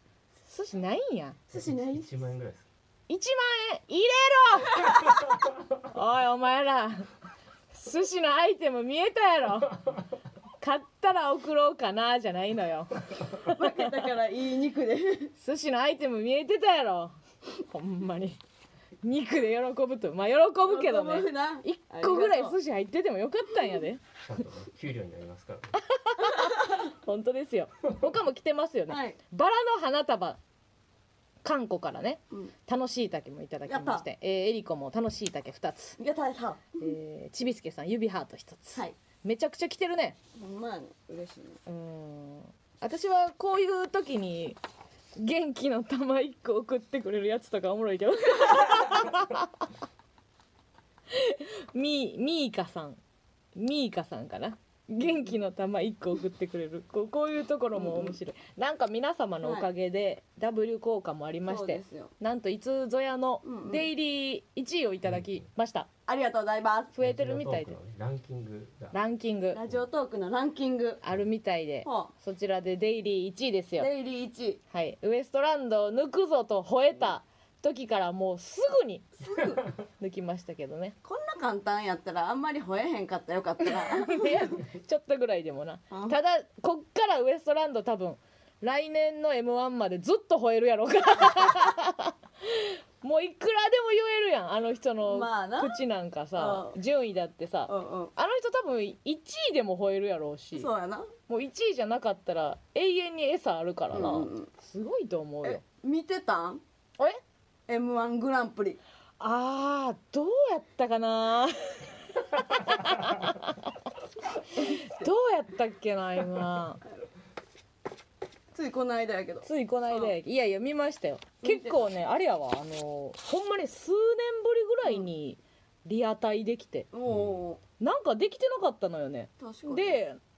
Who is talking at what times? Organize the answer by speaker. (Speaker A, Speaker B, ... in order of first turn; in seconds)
Speaker A: 0.5-1.4, 3.1-5.1, 5.8-7.1, 7.7-10.0, 10.6-13.6, 15.4-18.4, 19.0-24.0, 25.8-30.4, 31.4-36.0, 36.8-40.2, 41.6-44.6, 45.1-49.7, 51.1-53.0, 53.5-65.9, 66.9-67.8, 68.9-69.6, 71.0-73.9, 74.7-79.1, 80.0-81.0, 83.7-100.7, 101.3-105.6, 109.2-113.7, 114.5-116.8, 119.4-126.9, 127.8-130.2
Speaker B: 1.5-2.2, 13.4-15.3, 20.6-22.6, 26.3-26.8, 28.9-29.1, 33.7-34.0, 36.0-36.9, 40.4-41.6, 57.7-58.2, 59.4-59.7, 61.4-62.1, 63.4-63.9, 66.1-67.0, 69.5-71.0, 71.8-72.1, 73.8-74.6, 79.2-79.6, 81.0-84.6, 85.9-86.2, 95.0-95.8, 96.3-96.8, 97.7-98.1, 100.5-101.1, 103.9-104.5, 105.4-106.6, 107.7-108.8, 114.5-115.1, 118.5-120.2, 121.4-121.8, 126.9-127.6, 129.4-130.0
Speaker C: 1.5-2.7, 24.2-25.8, 67.0-69.0, 127.1-127.4